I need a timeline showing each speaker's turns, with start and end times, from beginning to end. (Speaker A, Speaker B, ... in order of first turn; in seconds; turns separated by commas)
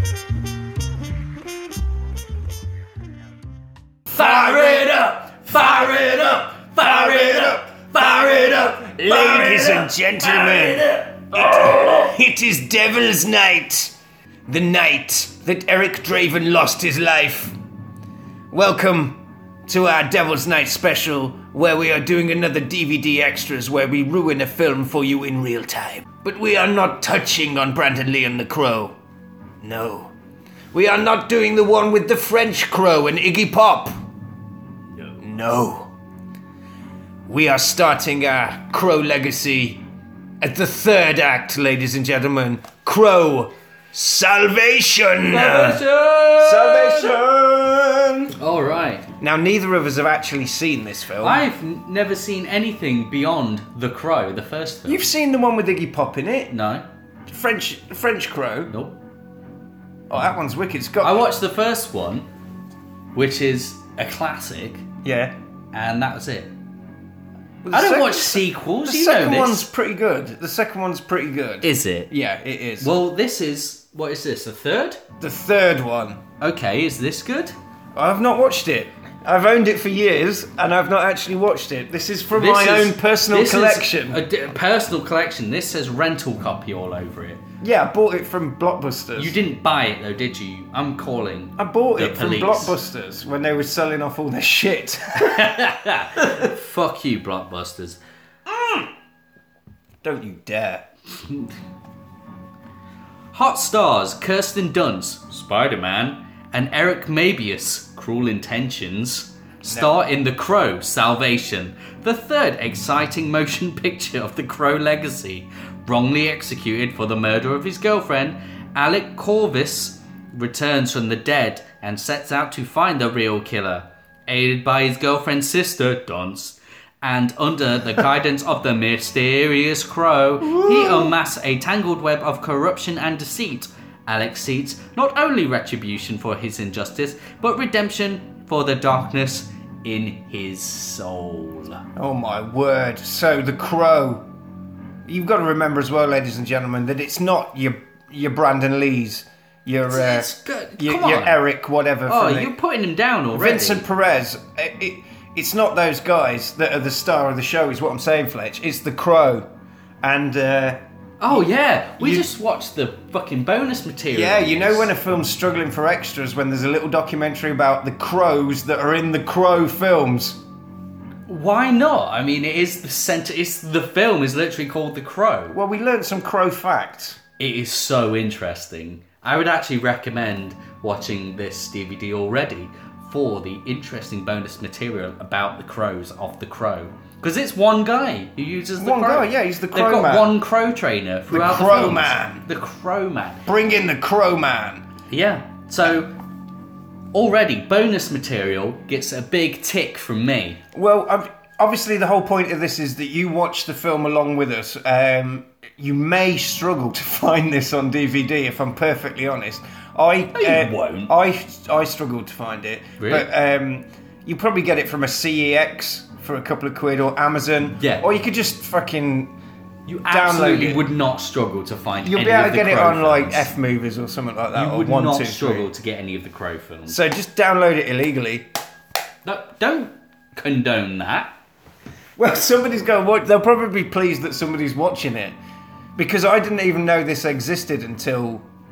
Speaker A: 4.1-13.9, Speaker B: 4.1-12.1, Speaker A: 14.5-17.6, Speaker A: 18.5-28.9, Speaker A: 29.6-30.1, Speaker A: 30.7-34.0, Speaker A: 35.2-35.9, Speaker A: 37.3-39.8, Speaker A: 40.4-48.3, Speaker B: 45.3-47.2, Speaker B: 48.3-49.1, Speaker A: 49.2-51.4, Speaker B: 51.2-55.1, Speaker A: 54.8-56.5, Speaker B: 56.5-56.9, Speaker A: 57.3-58.7, Speaker B: 58.7-59.0, Speaker A: 60.1-61.3, Speaker B: 61.0-62.3, Speaker B: 63.1-64.9, Speaker A: 65.0-65.3, Speaker B: 65.7-66.5, Speaker A: 67.6-72.9, Speaker B: 67.7-69.7, Speaker B: 71.6-72.1, Speaker B: 72.8-75.0, Speaker A: 75.2-76.2, Speaker B: 76.4-77.5, Speaker A: 77.9-84.2, Speaker B: 82.3-87.4, Speaker A: 87.6-89.4, Speaker B: 89.2-92.8, Speaker A: 91.6-95.6, Speaker B: 95.2-98.0, Speaker A: 98.5-98.9, Speaker A: 100.0-100.9, Speaker B: 103.3-141.8, Speaker A: 109.6-110.0, Speaker A: 130.4-131.1, Speaker A: 141.9-144.2, Speaker A: 145.1-152.5, Speaker B: 149.9-151.4, Speaker B: 152.1-153.8, Speaker A: 153.3-159.5, Speaker A: 160.0-161.4, Speaker B: 161.2-164.9, Speaker A: 162.0-162.3, Speaker A: 164.1-170.4, Speaker B: 171.3-175.6, Speaker A: 175.5-177.2, Speaker B: 177.4-193.4, Speaker A: 188.8-190.4, Speaker A: 191.3-192.4, Speaker A: 193.4-194.8, Speaker B: 195.1-196.1, Speaker B: 197.1-200.6, Speaker A: 200.7-219.3, Speaker B: 210.3-211.1, Speaker B: 213.0-213.3, Speaker B: 217.8-218.0, Speaker B: 219.8-223.5, Speaker A: 220.1-220.9, Speaker A: 222.0-225.7, Speaker B: 224.5-227.0, Speaker A: 226.9-228.5, Speaker B: 229.2-231.3, Speaker A: 232.2-235.4, Speaker A: 235.9-238.4